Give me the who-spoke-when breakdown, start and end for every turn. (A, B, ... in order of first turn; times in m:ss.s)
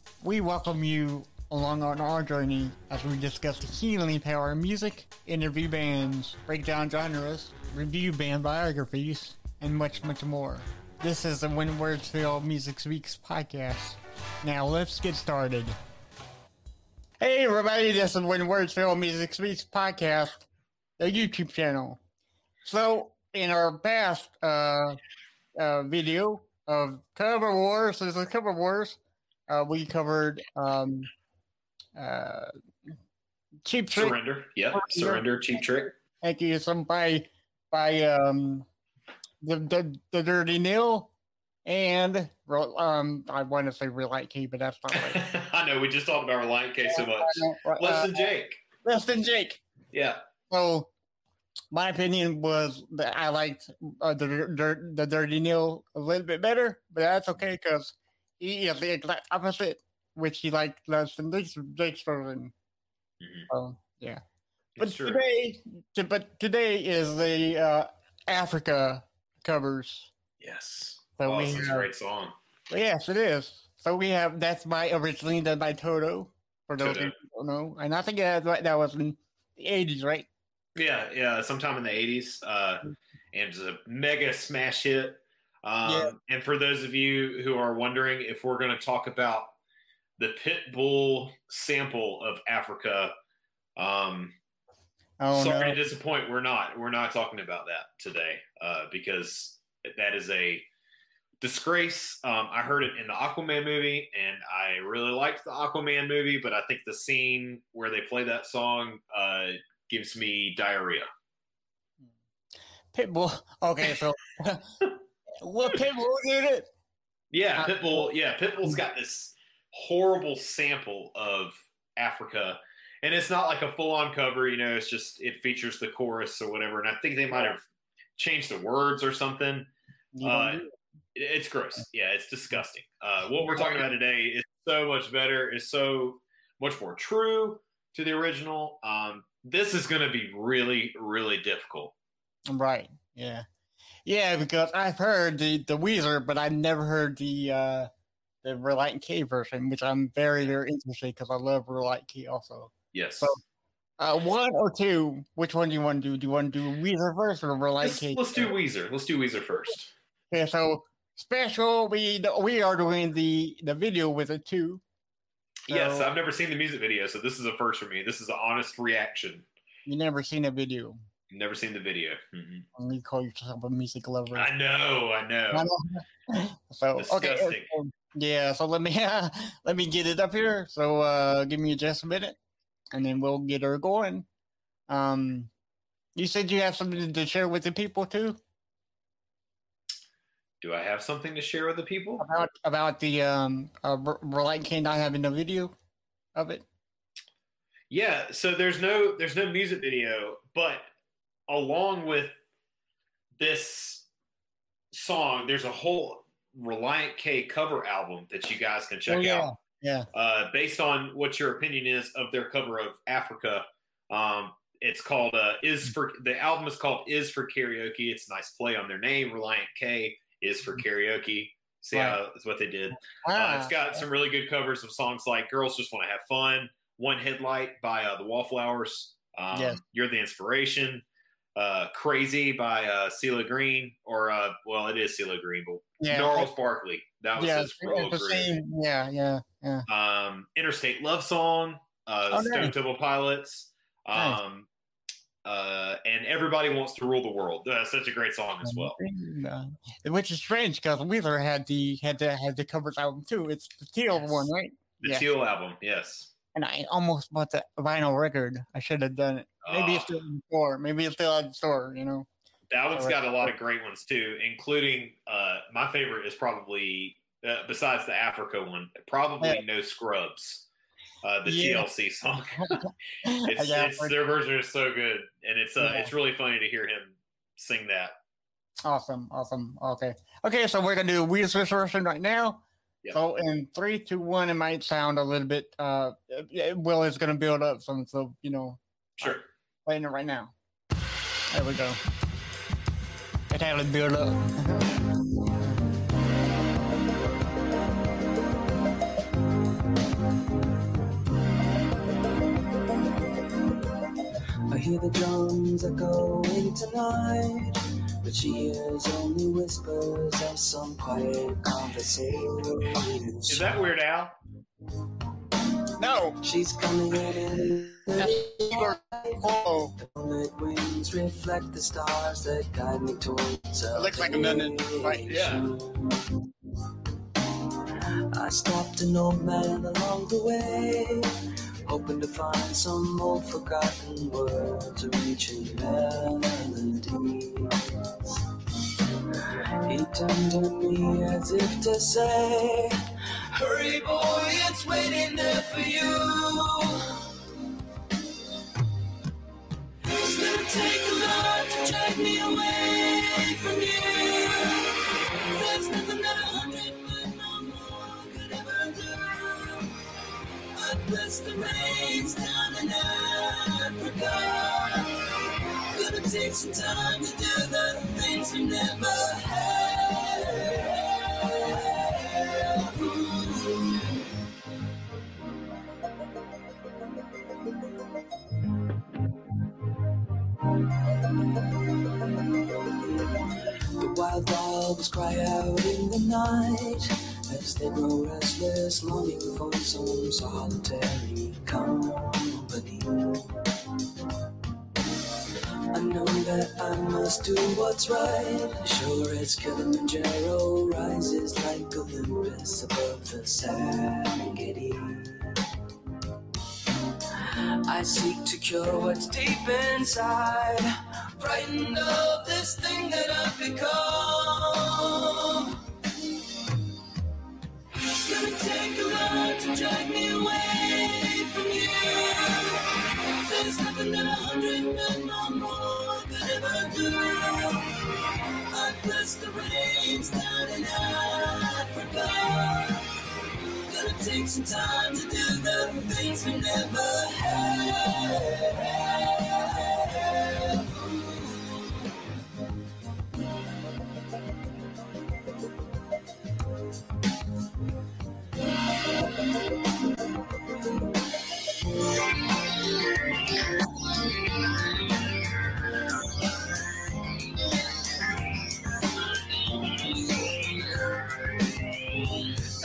0:00.2-0:15.8 A
0:17.2-0:20.5 A
0:21.0-0:22.0 A
0:22.6-0:25.0 A
0:25.6-0:31.1 A
0:32.0-0:32.5 A
0:33.7-0:34.2 A
0:34.0-0:35.9 B
0:34.7-0:35.2 A
0:36.2-0:38.7 A
0:39.4-0:41.1 A
0:41.6-0:45.2 A
0:44.9-0:48.6 B
0:46.9-0:48.2 A
0:48.8-0:49.6 A
0:49.9-0:50.2 B
0:50.5-0:50.9 A
0:51.7-1:02.5 A
1:03.2-1:03.5 B
1:03.5-1:04.2 A
1:04.8-1:05.2 B
1:04.8-1:10.1 A
1:10.4-1:12.3 B
1:11.2-1:11.9 A
1:12.7-1:20.3 A
1:16.8-1:17.1 B
1:20.8-1:29.6 B
1:25.8-1:26.1 A
1:30.2-1:33.1 B
1:33.8-1:34.4 B
1:35.2-1:35.8 A
1:35.3-1:40.7 B
1:41.4-1:51.1 B
1:52.9-1:54.8 A
1:55.4-1:56.7 A
1:57.3-2:07.7 B
1:57.6-1:58.1 A
2:08.2-2:09.7 B
2:10.2-2:10.7 A
2:10.2-2:10.6 B
2:11.2-2:21.9 B
2:22.5-2:23.4 A
2:24.1-2:27.9 A
2:28.4-2:33.4 A
2:32.9-2:33.4 B
2:34.0-2:38.5 A
2:37.8-2:39.9 B
2:40.3-2:44.8 A
2:45.7-2:46.1 A
2:45.7-2:49.5 B
2:49.9-2:51.0 A
2:51.3-2:52.7 B
2:52.8-2:54.5 A
2:54.4-2:55.7 B
2:55.5-3:02.4 A
2:57.0-2:57.7 B
3:02.9-3:04.3 A
3:04.9-3:05.5 A
3:06.2-3:08.4 A
3:10.6-3:12.2 B
3:12.2-3:15.7 A
3:16.4-3:16.6 A
3:17.9-3:20.8 B
3:21.5-3:22.4 B
3:23.4-3:24.1 B
3:24.9-3:29.5 B
3:29.1-3:30.1 A
3:30.1-3:51.0 B
3:41.9-3:42.2 A
3:43.2-3:44.0 A
3:49.5-3:49.8 A
3:51.6-3:58.5 B
3:56.0-3:56.5 A
3:57.4-3:59.9 A
3:59.9-4:04.7 B
4:02.3-4:02.7 A
4:04.1-4:04.4 A
4:05.4-4:09.0 B
4:08.6-4:15.3 A
4:14.2-4:14.5 B
4:15.0-4:16.3 B
4:16.6-4:22.3 A
4:19.6-4:20.1 B
4:22.7-4:30.7 B
4:22.9-4:23.5 A
4:31.2-4:32.8 B
4:31.5-4:31.9 A
4:32.6-4:34.2 A
4:33.5-4:38.1 B
4:35.8-4:36.1 A
4:38.8-4:50.5 A
4:51.5-4:52.0 A
4:53.5-4:54.9 A
4:55.5-4:55.8 A
5:04.7-5:13.7 C
5:13.5-5:14.4 B
5:16.0-5:16.4 A
5:16.4-5:19.4 C
5:18.2-5:19.9 A
5:20.0-5:26.4 C
5:23.9-5:25.5 A
5:25.3-5:25.7 B
5:28.3-5:38.3 C
5:39.8-5:47.6 C
5:50.0-6:00.0 C
6:00.6-6:14.2 C
6:24.0-6:33.7 C
6:35.9-6:45.6 C
6:47.4-6:55.9 C
6:58.0-7:21.7 C
7:39.4-7:42.5 C